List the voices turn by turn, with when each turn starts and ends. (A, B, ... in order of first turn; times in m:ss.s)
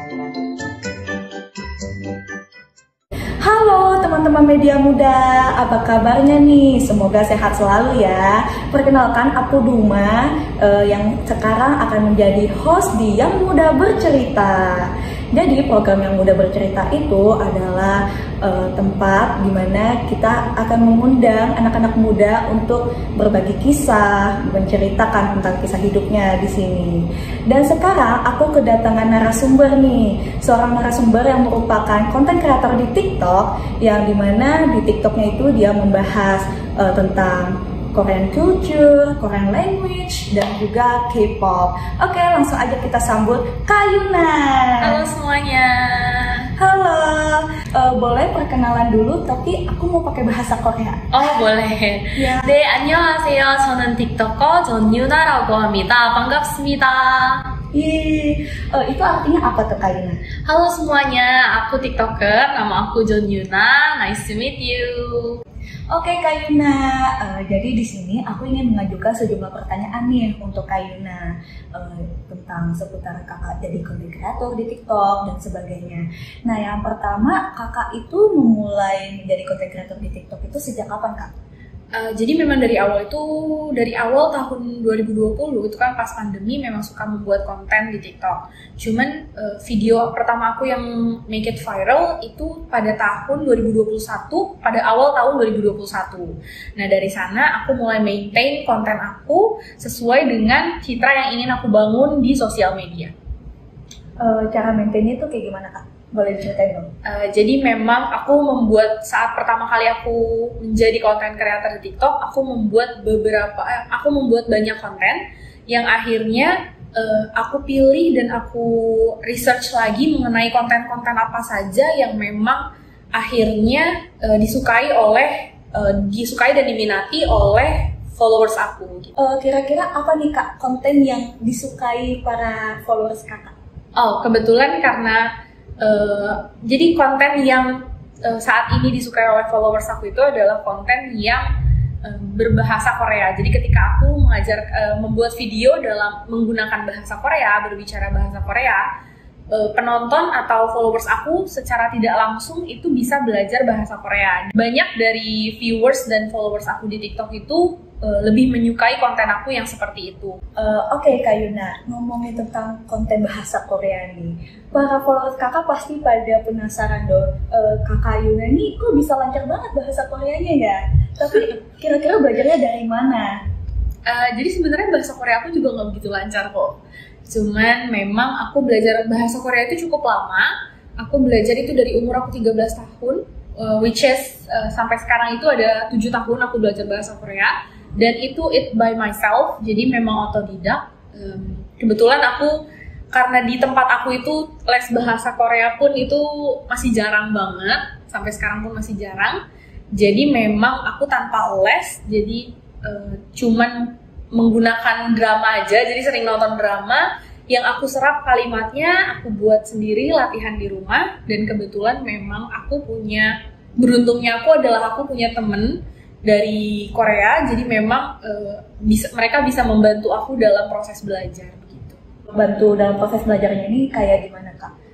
0:03.4-0:45.0 A
0:44.8-0:46.5 B
0:46.6-0:51.2 A
0:51.1-0:57.4 B
0:52.2-0:52.5 A
0:57.7-1:00.2 A
1:00.4-1:05.4 B
1:05.9-1:21.3 A
1:21.9-1:43.1 B
1:44.2-1:46.9 A
1:47.0-2:09.1 B
2:09.2-2:13.5 A
2:14.0-2:21.4 B
2:22.0-2:28.8 B
2:29.5-2:40.4 B
2:40.6-2:53.4 A
2:54.0-3:19.4 B
3:19.9-3:42.0 B
3:42.3-3:44.7 A